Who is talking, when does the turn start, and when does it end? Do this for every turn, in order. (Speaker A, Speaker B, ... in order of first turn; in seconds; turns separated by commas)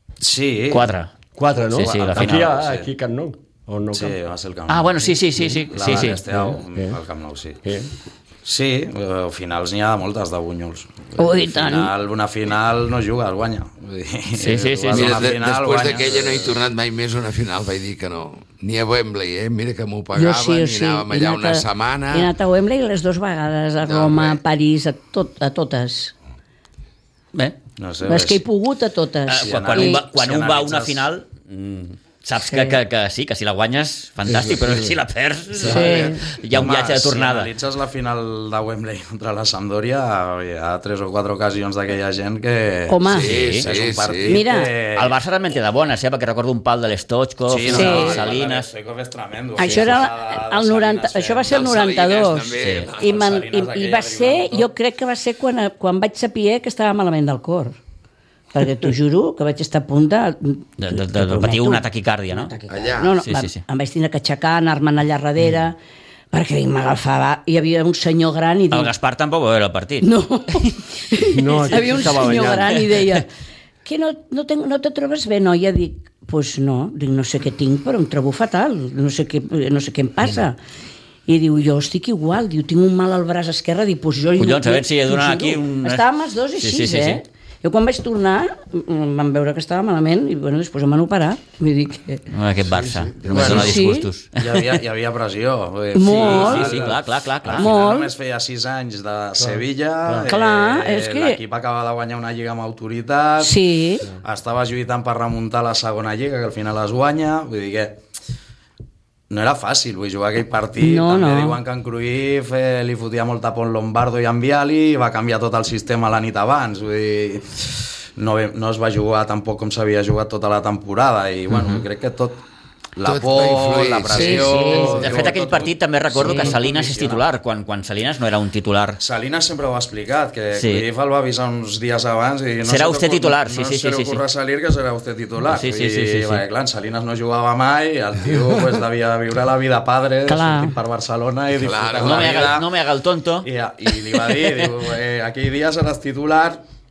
Speaker A: 0.2-0.9, Speaker B: 0.7-1.1, Speaker C: 1.4-4.2, Speaker B: 1.7-2.5, Speaker A: 1.8-2.9, Speaker A: 3.9-7.6, Speaker B: 4.7-6.2, Speaker C: 6.3-7.0, Speaker C: 7.6-7.9, Speaker A: 8.4-16.6, Speaker D: 11.2-11.9, Speaker B: 14.3-15.2, Speaker E: 14.9-22.3, Speaker D: 20.1-26.1, Speaker E: 23.8-24.4, Speaker A: 27.8-28.4, Speaker D: 28.0-30.0, Speaker B: 29.3-37.5, Speaker A: 29.4-31.0, Speaker D: 32.4-32.8, Speaker E: 34.3-35.0, Speaker E: 35.6-36.2, Speaker D: 35.6-36.3, Speaker A: 36.5-45.1, Speaker D: 42.9-43.4, Speaker E: 43.1-44.4, Speaker B: 43.2-43.7, Speaker D: 44.2-44.7, Speaker B: 45.0-48.7, Speaker A: 47.5-51.7, Speaker D: 47.7-48.3, Speaker D: 49.6-57.8, Speaker E: 51.5-53.4, Speaker B: 52.6-52.9, Speaker A: 53.0-54.7, Speaker D: 58.5-65.8, Speaker B: 60.8-62.5, Speaker E: 62.7-63.1, Speaker B: 63.2-63.6, Speaker D: 66.3-68.9, Speaker B: 68.7-70.8, Speaker D: 70.0-73.3, Speaker C: 71.3-72.8, Speaker B: 71.9-73.2, Speaker D: 73.8-80.6, Speaker D: 81.3-92.2, Speaker B: 84.4-86.0, Speaker B: 86.5-87.2, Speaker B: 92.3-94.8, Speaker E: 92.7-93.8, Speaker A: 93.3-93.8, Speaker D: 93.5-94.1, Speaker A: 94.4-108.0, Speaker D: 95.9-96.9, Speaker B: 96.0-97.7, Speaker D: 97.5-98.1, Speaker C: 99.4-100.3, Speaker D: 100.3-101.4, Speaker D: 103.4-104.1, Speaker A: 109.3-122.4, Speaker D: 110.8-111.6, Speaker A: 123.0-127.2, Speaker E: 123.0-124.8, Speaker D: 124.2-125.1, Speaker B: 124.9-129.0, Speaker D: 126.1-126.6, Speaker A: 129.0-142.7, Speaker B: 130.5-130.8, Speaker B: 132.6-134.2, Speaker B: 135.5-136.4, Speaker D: 140.3-140.8, Speaker E: 141.6-142.6, Speaker B: 142.0-143.5, Speaker A: 143.4-146.6